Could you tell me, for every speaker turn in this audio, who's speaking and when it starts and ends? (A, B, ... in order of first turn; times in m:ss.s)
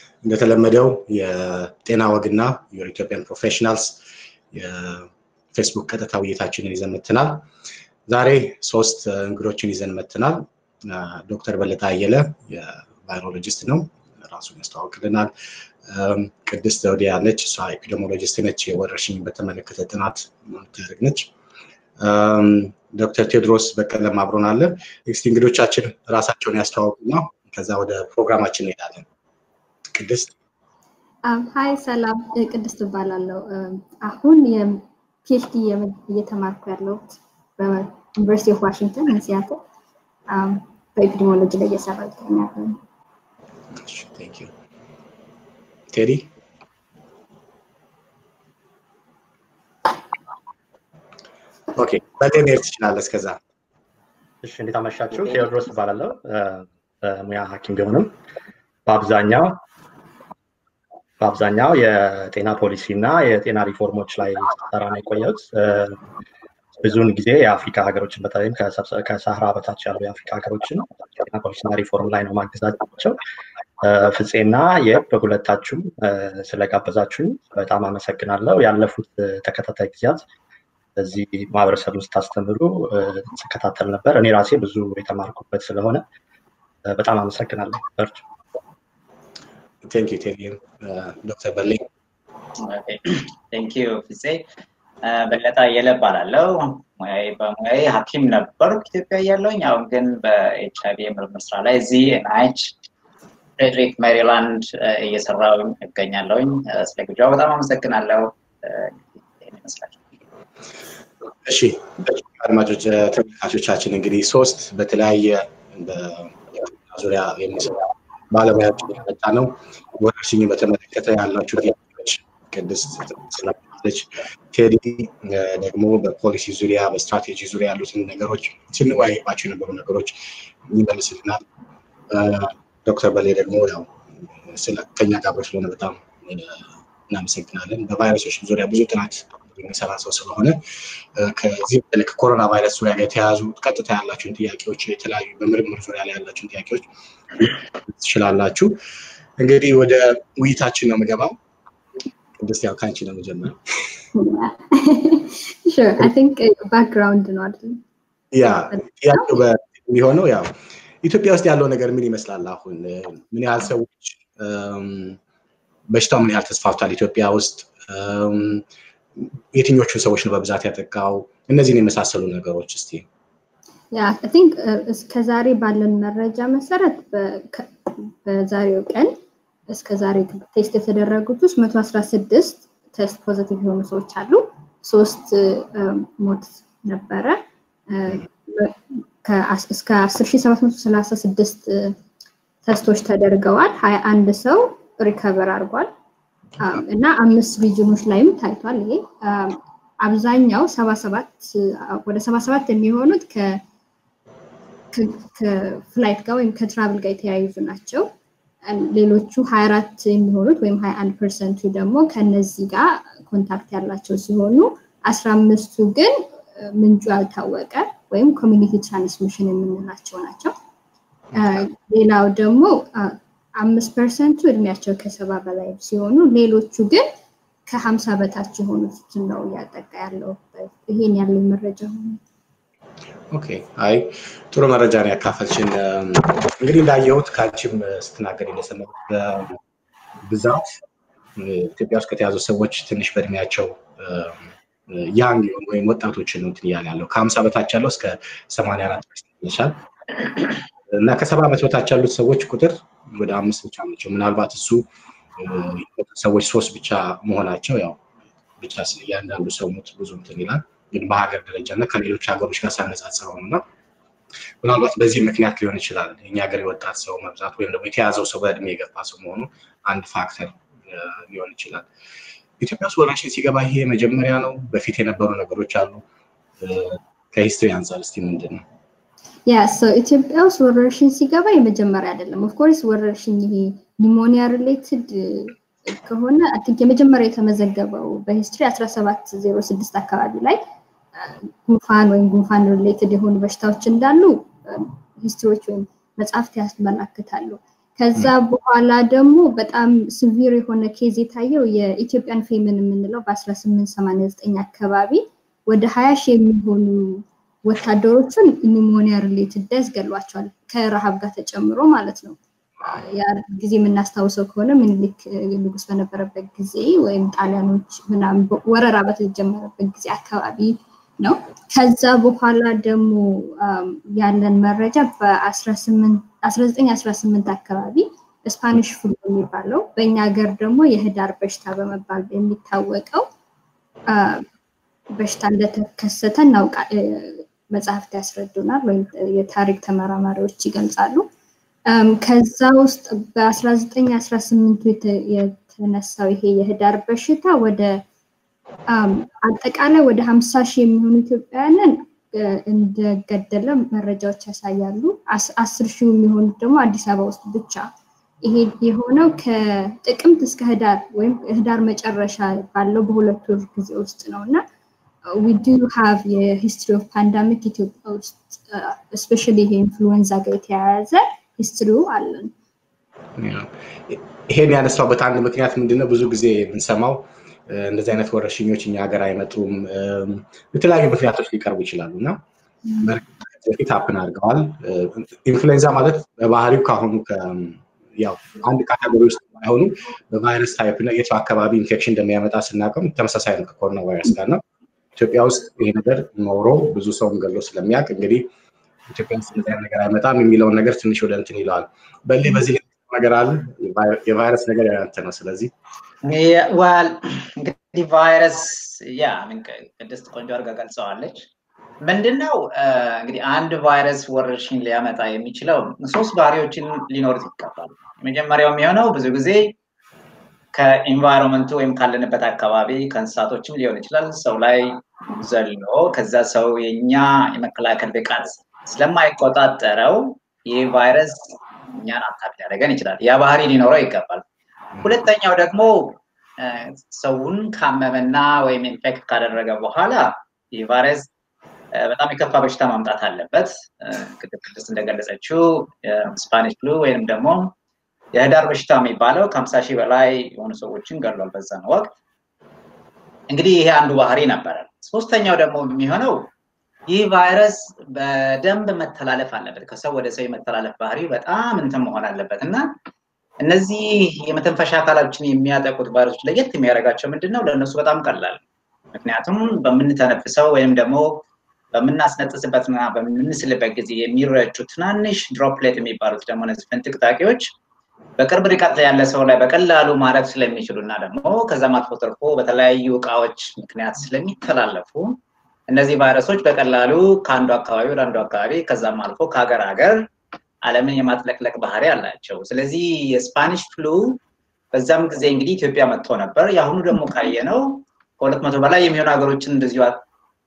0:00.2-0:04.0 A
0:04.5-0:07.5 A
0:08.1-0:15.3 A
0:15.8-0:21.3 A
0:22.0-0:29.1 A
0:29.9-0:30.4 A
0:31.3-0:39.6 B
0:40.3-0:42.8 B
0:43.7-0:44.5 A
0:45.9-0:46.3 A
0:51.8-0:53.4 A
0:54.4-0:58.1 C
0:58.9-0:59.6 C
1:01.2-1:06.0 C
1:06.8-1:13.2 C
1:13.8-1:20.2 C
1:21.0-1:26.0 C
1:26.9-1:28.2 C
1:29.8-1:31.9 A
1:32.6-1:34.4 D
1:35.0-1:42.8 D
1:43.6-1:50.1 D
1:51.4-2:11.4 A
2:12.1-2:28.8 A
2:29.4-2:31.4 A
2:32.4-2:33.6 A
2:34.2-2:37.8 B
2:38.3-2:45.2 A
2:38.7-2:39.4 B
2:45.9-2:48.6 A
2:49.2-2:53.0 A
2:53.9-2:59.2 B
2:59.7-3:07.4 B
3:07.9-3:12.0 B
3:12.6-3:15.9 B
3:16.6-3:23.6 B
3:24.9-3:28.1 B
3:28.6-3:40.5 B
3:41.3-3:41.6 A
3:41.4-3:47.1 B
3:47.7-3:52.2 B
3:53.3-3:59.6 A
4:00.2-4:00.7 A
4:01.4-4:14.9 A
4:15.4-4:18.0 A
4:18.6-4:23.6 A
4:24.6-4:31.9 A
4:32.6-4:36.0 A
4:36.6-4:38.6 A
4:39.5-4:50.6 B
4:51.2-5:33.3 B
5:34.1-5:34.4 B
5:35.2-5:41.3 B
5:41.9-5:48.0 B
5:48.9-5:57.9 B
5:58.4-6:04.6 B
6:05.3-6:12.5 B
6:13.4-6:22.4 A
6:23.0-6:34.6 A
6:35.2-6:38.5 A
6:39.1-6:45.7 A
6:46.2-6:51.5 D
6:52.0-6:59.7 D
7:00.7-7:14.4 D
7:15.0-7:21.3 D
7:21.9-7:27.7 D
7:28.3-7:32.1 D
7:33.5-7:36.5 D
7:37.1-7:42.9 D
7:43.6-7:48.6 D
7:49.1-7:57.7 D
7:58.4-8:10.3 D
8:10.8-8:14.4 D
8:14.9-8:20.2 D